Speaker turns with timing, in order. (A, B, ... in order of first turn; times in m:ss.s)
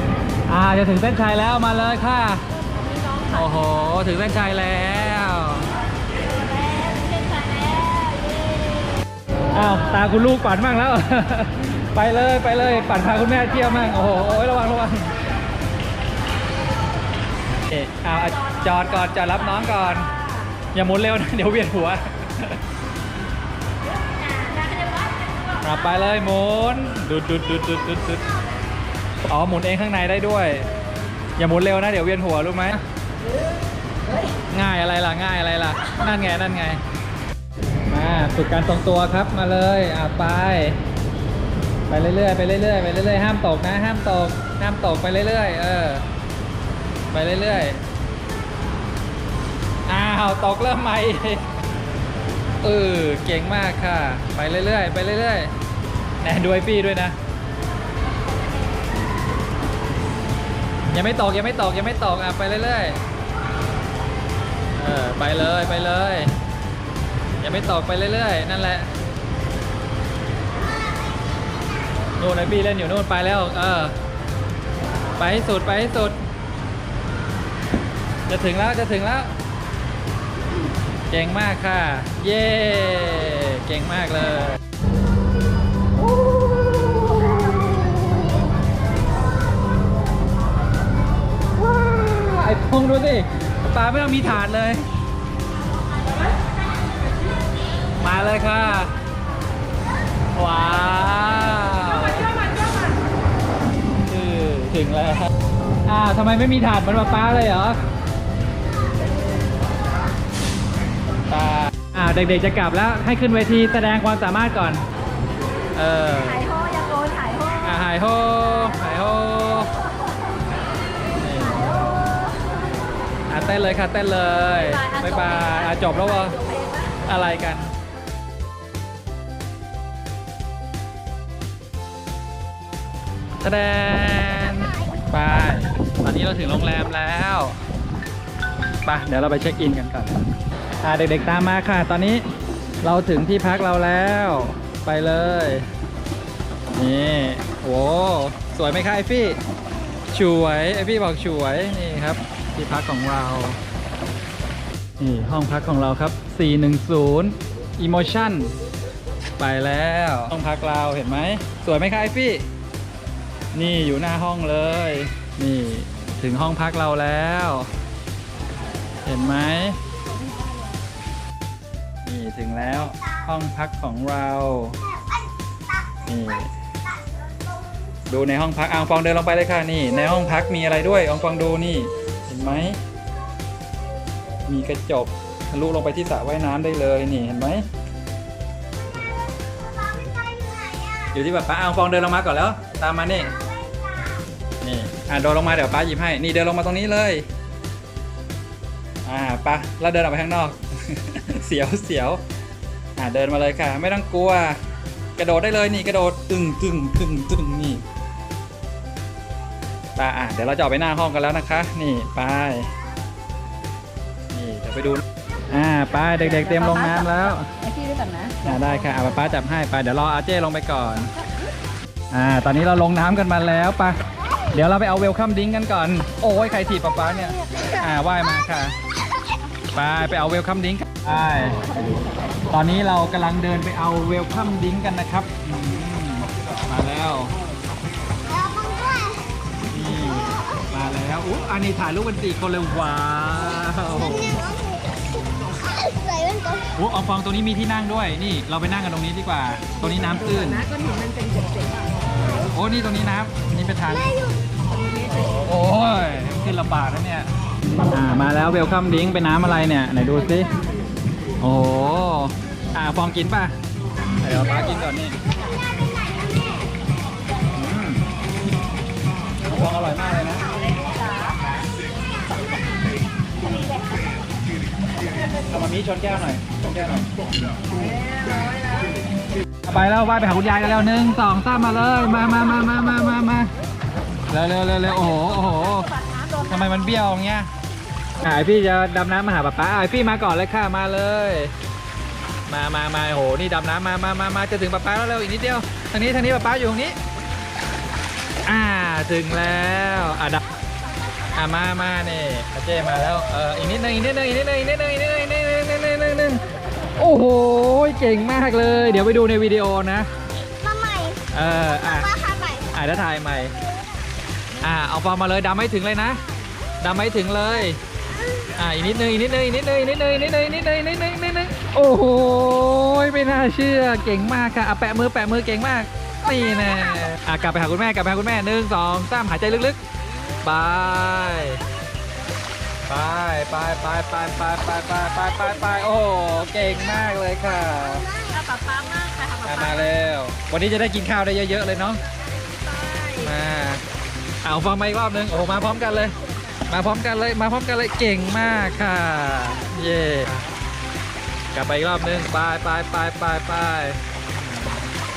0:00.5-0:02.4 A
0:02.7-0:03.3 B
0:03.2-0:05.7 A
0:06.4-0:08.9 B
0:09.5-0:15.2 A
0:17.7-0:20.1 A
0:20.1-0:20.4 B
0:20.7-0:22.6 A
0:24.0-0:25.6 B
0:25.6-0:28.3 A
0:29.3-0:30.6 A
0:31.4-0:32.8 A
0:34.5-0:36.8 A
0:37.9-0:40.8 A
0:41.9-0:46.0 A
0:47.1-0:47.8 A
0:49.9-0:51.4 A
0:52.6-0:55.5 A
0:56.2-0:57.2 A
1:00.9-1:03.0 A
1:04.8-1:06.4 A
1:07.4-1:08.9 A
1:12.2-1:14.0 A
1:15.2-1:16.2 A
1:18.3-1:19.3 A
1:21.1-1:24.6 A
1:31.5-1:34.8 A
1:38.0-1:39.0 A
1:40.3-1:42.4 A
1:42.4-1:42.9 B
1:44.0-1:45.3 A
1:45.8-1:47.8 A
1:51.3-1:54.8 A
1:55.7-1:56.5 A
1:56.3-1:57.6 B
1:57.6-1:59.7 A
2:01.2-2:01.9 A
2:03.3-2:06.4 A
2:04.6-2:06.9 B
2:06.9-2:07.7 A
2:13.4-2:17.6 A
2:18.8-2:20.2 A
2:20.8-2:22.2 A
2:22.8-2:25.7 A
2:26.7-2:29.4 A
2:30.1-2:33.6 A
2:35.0-2:38.5 A
2:39.4-2:42.4 A
2:43.5-2:47.7 A
2:49.0-2:49.8 A
2:52.0-2:54.8 A
2:56.0-2:56.5 A
2:58.1-3:02.8 A
3:04.4-3:07.6 A
3:10.4-3:10.7 C
3:10.9-3:13.4 A
3:14.6-3:17.3 A
3:19.0-3:22.2 A
3:23.0-3:24.6 A
3:25.2-3:27.8 A
3:30.0-3:32.7 A
3:34.3-3:37.5 A
3:36.3-3:38.4 B
3:38.4-3:41.1 A
3:42.1-3:44.0 A
3:44.5-3:48.8 A
3:49.7-3:51.7 A
3:52.5-3:57.3 A
3:58.5-3:59.2 C
3:59.7-4:04.6 A
4:05.8-4:06.5 C
4:06.6-4:10.7 A
4:10.6-4:11.7 B
4:12.1-4:14.3 A
4:15.0-4:17.3 A
4:17.9-4:20.6 A
4:21.4-4:23.6 A
4:24.2-4:25.2 A
4:27.5-4:28.0 A
4:29.4-4:30.5 A
4:30.8-4:31.2 B
4:35.4-4:37.1 A
4:38.2-4:38.8 B
4:39.6-4:43.5 A
4:44.3-4:47.5 A
4:45.9-4:46.5 B
4:48.2-4:51.5 A
4:52.5-4:57.0 A
4:58.4-5:00.4 A
5:01.3-5:10.1 A
5:10.6-5:11.2 C
5:11.3-5:13.5 A
5:14.6-5:16.2 A
5:16.8-5:17.8 A
5:18.5-5:29.8 A
5:30.4-5:31.6 A
5:32.9-5:38.2 A
5:38.2-5:39.8 B
5:39.4-5:42.0 A
5:42.4-5:43.2 B
5:43.1-5:43.8 A
5:44.4-5:50.4 A
5:51.5-5:54.8 A